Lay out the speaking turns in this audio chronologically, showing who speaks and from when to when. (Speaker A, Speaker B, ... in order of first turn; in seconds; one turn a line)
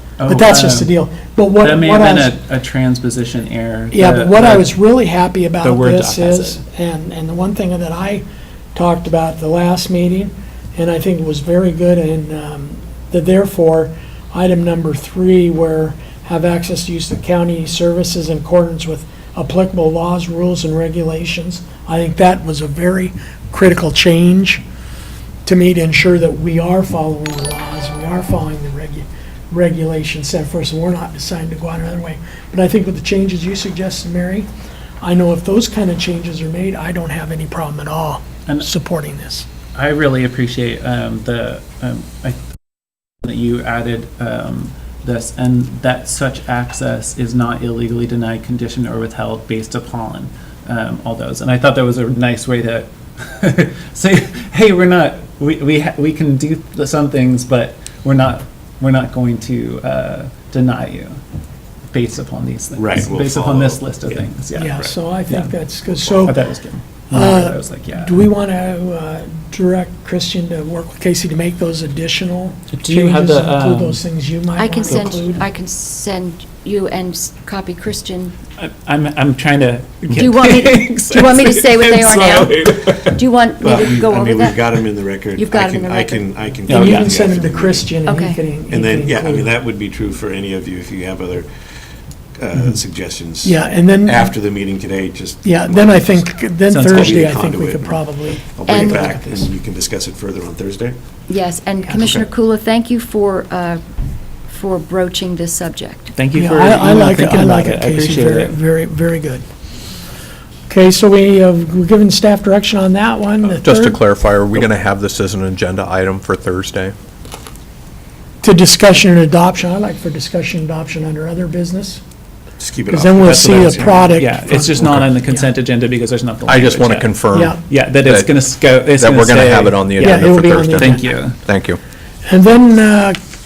Speaker A: 0.2-0.9
Speaker B: 0.3-2.4
Speaker A: 1.6-4.7
Speaker B: 3.9-8.2
Speaker A: 5.6-6.6
Speaker B: 8.8-24.6
Speaker B: 25.4-34.5
Speaker B: 35.0-39.5
Speaker A: 39.7-42.4
Speaker A: 43.2-61.2
Speaker A: 61.9-65.5
Speaker C: 62.8-65.0
Speaker B: 64.5-66.4
Speaker A: 66.3-68.2
Speaker B: 67.1-75.4
Speaker A: 72.7-74.0
Speaker D: 74.6-78.4
Speaker A: 78.6-83.2
Speaker D: 80.1-86.3
Speaker C: 83.6-88.0
Speaker A: 86.7-87.1
Speaker B: 86.7-89.5
Speaker D: 88.0-88.4
Speaker C: 88.6-91.7
Speaker C: 92.3-101.0
Speaker B: 93.4-94.3
Speaker B: 95.4-99.5
Speaker A: 96.7-97.2
Speaker D: 98.7-99.1
Speaker D: 101.3-103.8
Speaker C: 102.0-102.2
Speaker D: 104.4-106.1
Speaker A: 106.2-108.6
Speaker B: 106.3-109.5
Speaker B: 110.7-114.0
Speaker E: 113.5-117.0
Speaker B: 118.4-122.0
Speaker C: 122.6-124.1
Speaker B: 122.9-125.5
Speaker A: 123.2-131.4
Speaker E: 126.5-131.8
Speaker B: 127.3-127.6
Speaker B: 130.0-131.1
Speaker B: 132.2-133.2